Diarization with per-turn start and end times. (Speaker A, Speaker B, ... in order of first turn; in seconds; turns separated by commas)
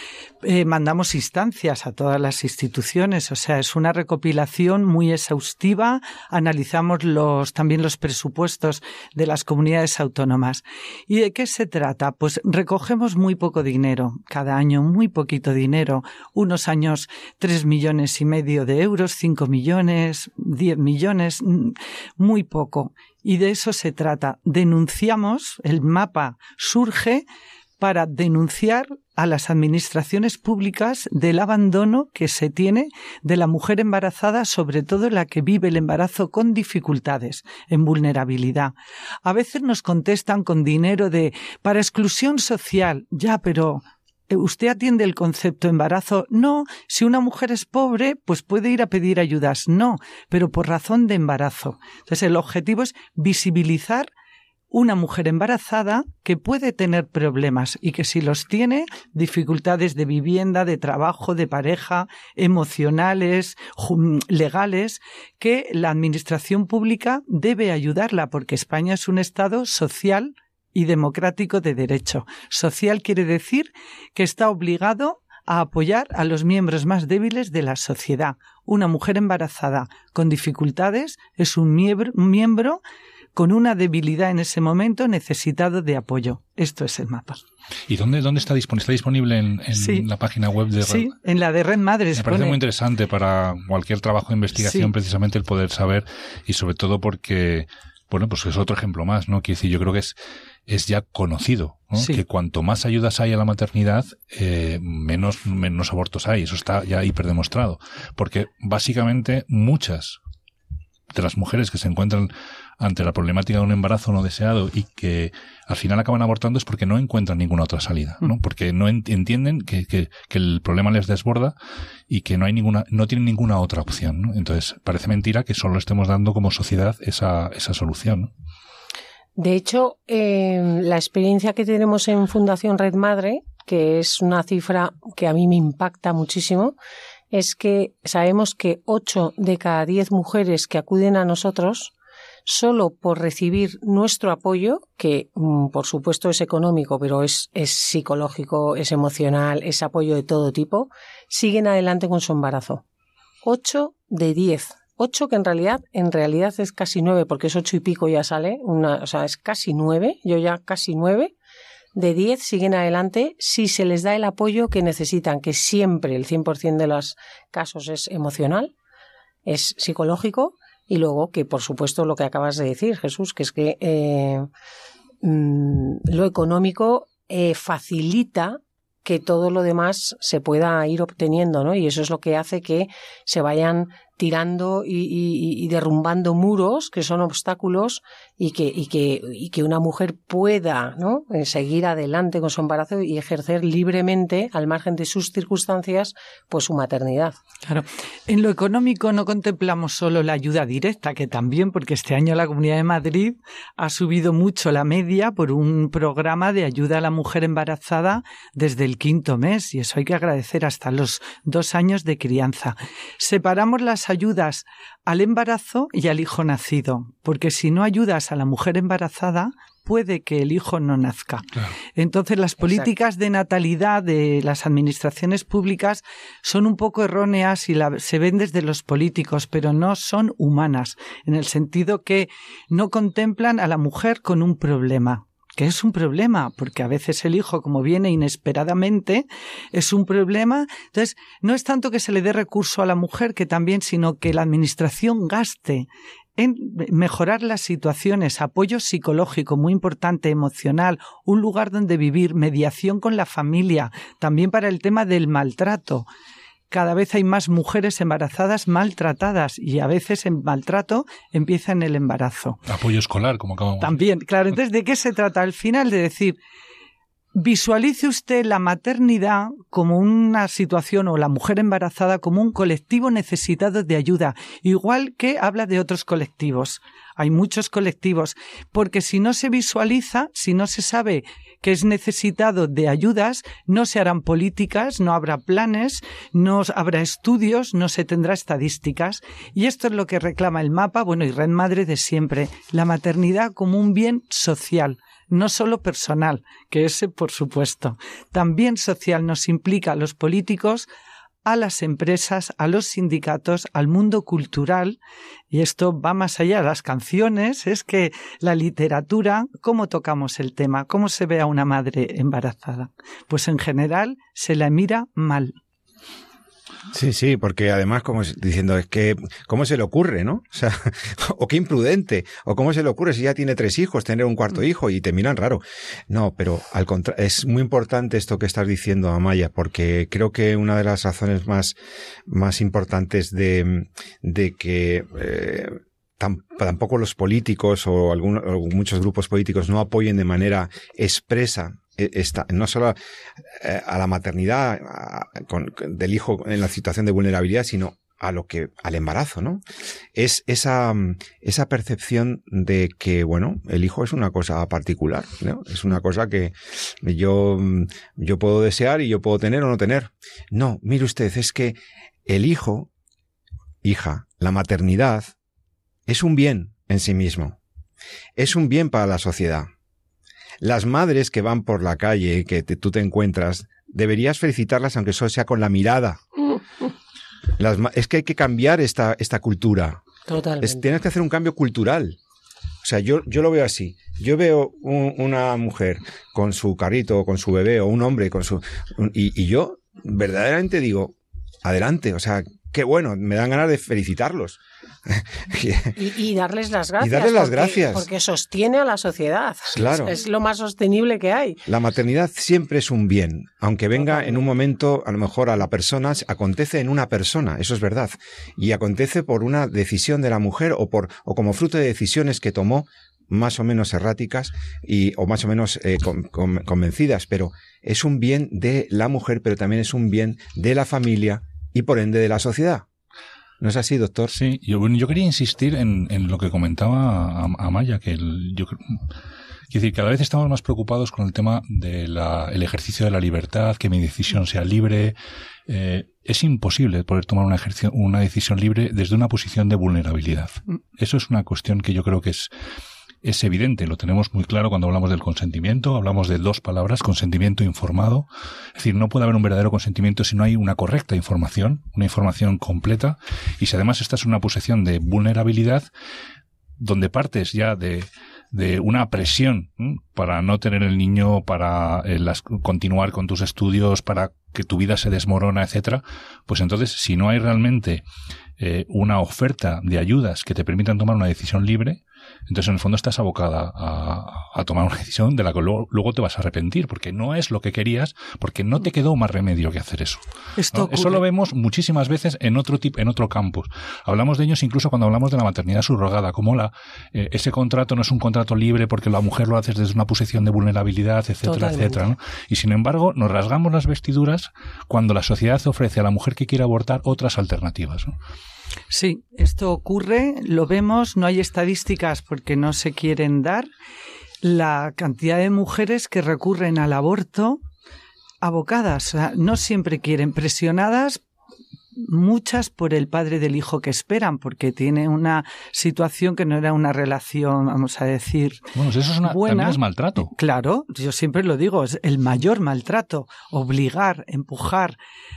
Speaker A: 0.4-27.2, Speaker A: 27.8-38.7, Speaker A: 39.2-54.1, Speaker A: 54.7-82.8, Speaker A: 83.3-87.4, Speaker B: 87.9-91.1, Speaker A: 89.7-90.1, Speaker A: 90.8-92.6, Speaker B: 92.2-100.2, Speaker A: 94.5-94.9, Speaker B: 100.7-110.2, Speaker A: 101.9-102.2, Speaker B: 111.1-121.5, Speaker B: 122.1-128.3, Speaker C: 129.3-136.8, Speaker C: 137.3-141.9, Speaker C: 142.4-152.8, Speaker C: 153.4-161.3, Speaker C: 161.9-168.7, Speaker C: 169.4-174.5, Speaker C: 175.2-197.4, Speaker A: 197.7-256.1, Speaker A: 256.7-262.6, Speaker B: 262.7-264.0, Speaker A: 263.8-266.4, Speaker A: 267.4-300.9, Speaker A: 301.4-305.0, Speaker A: 305.5-315.6, Speaker D: 316.9-331.8, Speaker D: 332.3-343.0, Speaker D: 343.6-349.6, Speaker D: 350.1-362.9, Speaker D: 363.8-365.3, Speaker D: 366.1-367.6, Speaker D: 368.4-369.7, Speaker D: 370.6-376.2, Speaker D: 377.6-380.0, Speaker C: 380.3-380.9, Speaker D: 380.6-382.2, Speaker D: 382.8-396.0, Speaker C: 395.9-401.6, Speaker D: 397.0-398.1, Speaker D: 399.7-400.1, Speaker D: 401.7-422.9, Speaker C: 403.9-404.5, Speaker D: 423.6-424.3, Speaker B: 424.3-429.1, Speaker B: 429.7-435.1, Speaker B: 435.7-442.5, Speaker B: 443.2-455.9, Speaker B: 456.8-468.0, Speaker B: 468.6-498.1, Speaker A: 480.6-481.2, Speaker C: 491.4-492.1, Speaker A: 498.9-503.7, Speaker A: 504.4-507.6, Speaker A: 508.4-511.2, Speaker A: 511.9-525.0, Speaker B: 518.7-520.3